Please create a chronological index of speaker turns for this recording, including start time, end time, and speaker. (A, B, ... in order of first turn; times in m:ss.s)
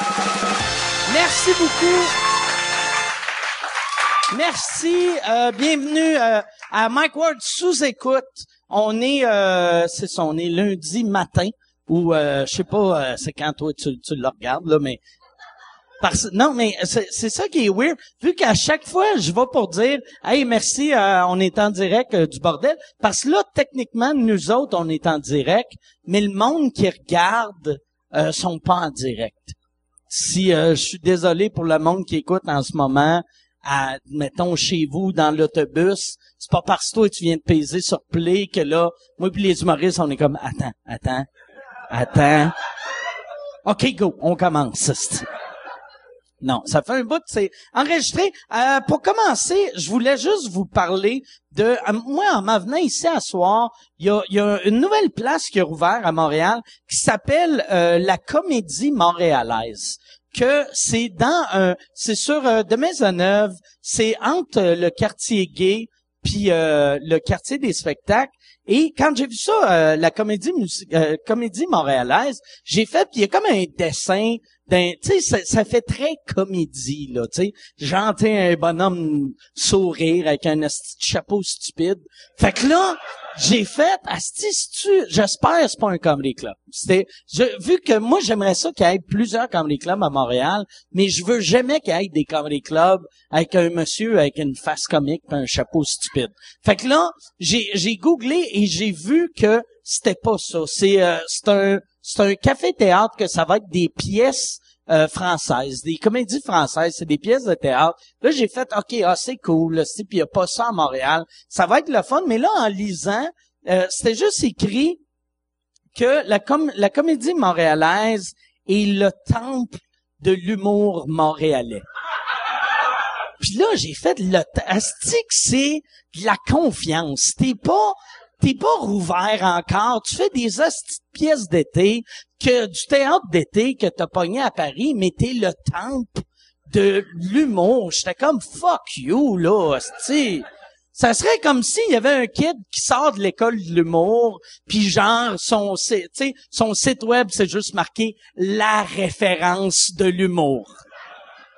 0:01.1-0:02.1 A
0:04.3-0:15.0 A
0:16.0-0:29.6 A
0:30.1-0:41.3 A
0:41.9-0:42.6 A
0:43.6-0:45.3 A
0:46.4-1:55.0 A
1:56.0-2:01.8 A
2:03.4-2:30.8 A